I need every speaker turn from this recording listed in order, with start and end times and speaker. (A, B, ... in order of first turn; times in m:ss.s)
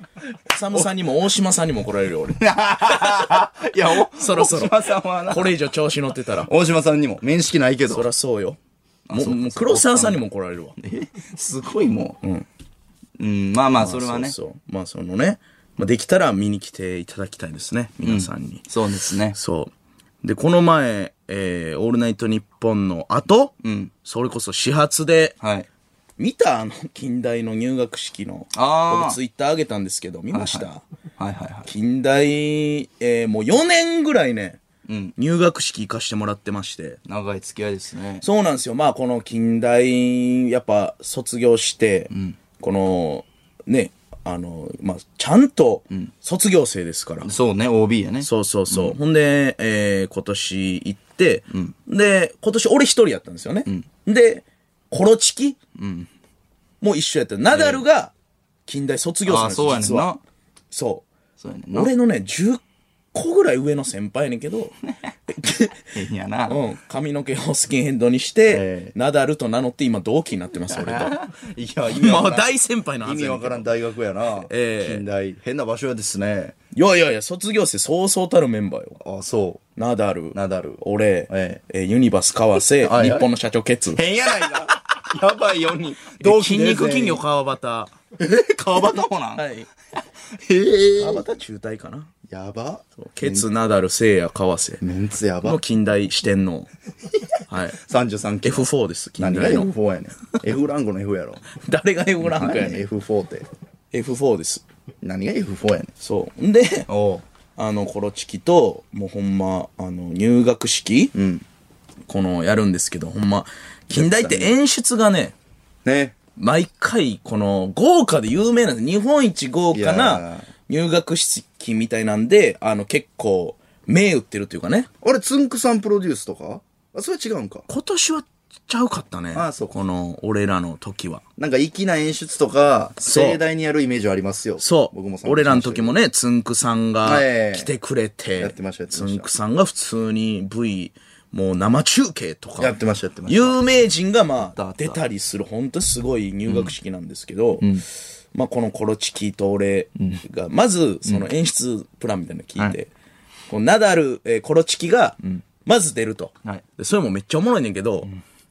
0:00.5-0:03.4 A
0:02.4-0:05.6 B
0:03.9-0:06.5 A
0:06.4-0:08.1 B
0:07.9-0:08.6 A
0:09.1-0:10.2 B
0:09.1-0:10.8 A
0:10.8-0:12.2 B
0:12.2-0:12.5 A
0:13.2-0:14.3 B
0:13.8-0:18.6 A
0:18.0-0:19.4 B
0:19.3-0:19.7 A
0:20.2-0:25.4 A
0:23.6-0:23.9 B
0:25.4-0:25.7 B
0:26.2-0:30.8 A
0:28.5-0:29.2 B
0:30.3-0:31.7 B
0:31.7-0:34.6 A
0:34.9-0:35.1 B
0:35.2-0:37.0 A
0:37.0-0:38.2 B
0:38.2-0:47.3 A
0:42.1-0:42.4 B
0:47.2-0:49.0 B
0:48.2-0:55.6 A
0:55.8-0:56.1 B
0:56.8-0:58.1 A
0:57.5-0:57.8 B
0:58.6-1:00.2 A
0:59.2-1:00.2 B
1:00.7-1:01.0 A
1:01.4-1:01.9 B
1:01.7-1:02.6 A
1:03.1-1:04.7 A
1:04.8-1:05.1 B
1:05.3-1:05.8 A
1:05.9-1:06.6 B
1:06.5-1:11.2 A
1:08.5-1:08.9 B
1:10.7-1:12.5 B
1:11.9-1:13.7 A
1:13.0-1:16.5 B
1:14.4-1:15.0 A
1:16.7-1:19.0 A
1:19.0-1:19.6 B
1:19.8-1:24.6 A
1:20.3-1:21.6 B
1:22.8-1:23.3 B
1:23.9-1:27.2 B
1:26.2-1:27.9 A
1:28.2-1:29.4 B
1:29.4-1:29.7 A
1:30.3-1:31.2 B
1:31.0-1:32.1 A
1:32.3-1:33.4 B
1:33.0-1:34.8 A
1:34.8-1:35.6 B
1:35.4-1:36.7 A
1:37.5-1:37.8 A
1:37.7-1:41.4 B
1:38.4-1:39.7 A
1:41.5-1:42.8 A
1:42.2-1:43.5 B
1:43.9-1:44.6 A
1:45.0-1:45.9 B
1:46.0-1:46.9 A
1:46.9-1:47.2 B
1:47.6-1:51.1 A
1:51.1-1:51.4 B
1:52.1-1:55.3 A
1:53.9-1:54.5 B
1:55.8-1:56.1 B
1:56.4-2:04.9 A
1:59.7-2:00.5 B
2:05.0-2:07.7 B
2:07.7-2:11.2 A
2:09.3-2:09.7 B
2:11.4-2:15.9 B
2:13.0-2:13.4 A
2:14.6-2:27.8 A
2:17.0-2:17.7 B
2:18.4-2:19.3 B
2:22.6-2:23.6 B
2:24.4-2:25.0 B
2:26.5-2:26.7 B
2:28.3-2:32.9 A
2:33.5-2:38.1 A